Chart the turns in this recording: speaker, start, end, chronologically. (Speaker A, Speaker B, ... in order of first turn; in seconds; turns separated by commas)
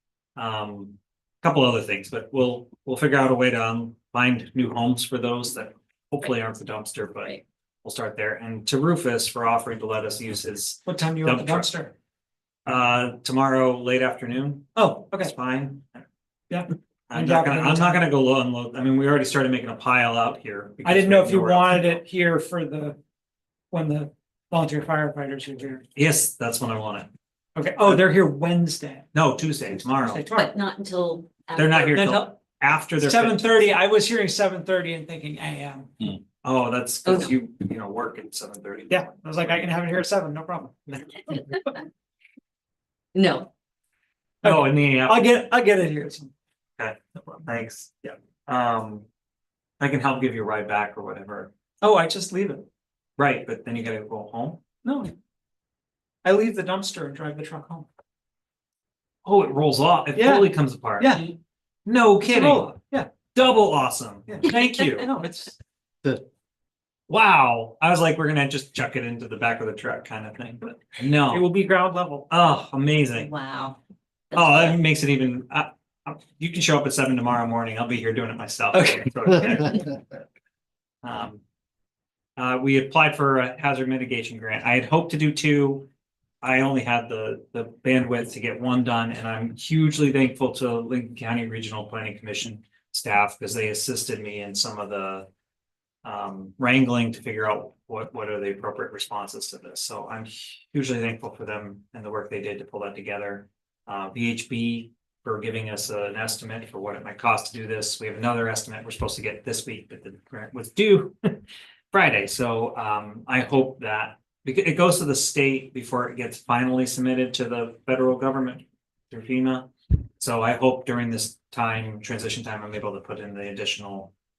Speaker A: 0.3-11.7, Speaker B: 10.8-11.9, Speaker A: 12.7-16.1, Speaker B: 14.8-15.3, Speaker B: 16.5-18.0, Speaker A: 17.1-22.0, Speaker B: 20.8-23.0, Speaker B: 23.7-25.8, Speaker A: 25.9-27.1, Speaker B: 27.5-29.1, Speaker A: 29.1-30.2, Speaker B: 30.0-30.5, Speaker C: 30.3-31.9, Speaker A: 31.5-33.4, Speaker B: 31.9-32.4, Speaker B: 33.0-36.1, Speaker A: 36.4-39.5, Speaker C: 37.0-37.3, Speaker B: 38.9-40.9, Speaker C: 43.1-43.5, Speaker B: 44.4-46.3, Speaker A: 44.4-45.2, Speaker A: 46.8-49.0, Speaker A: 49.8-51.5, Speaker B: 51.8-52.7, Speaker A: 53.2-54.6, Speaker B: 54.8-55.1, Speaker B: 56.2-57.9, Speaker A: 59.2-61.3, Speaker B: 60.1-61.3, Speaker A: 61.9-62.8, Speaker B: 62.2-63.1, Speaker A: 63.3-65.1, Speaker B: 64.3-65.5, Speaker A: 67.1-71.5, Speaker B: 71.3-72.3, Speaker A: 72.3-73.3, Speaker C: 73.1-73.8, Speaker C: 74.3-74.8, Speaker A: 74.3-80.0, Speaker A: 81.0-81.4, Speaker A: 82.4-85.9, Speaker A: 86.4-95.3, Speaker A: 96.0-111.4, Speaker A: 111.9-124.1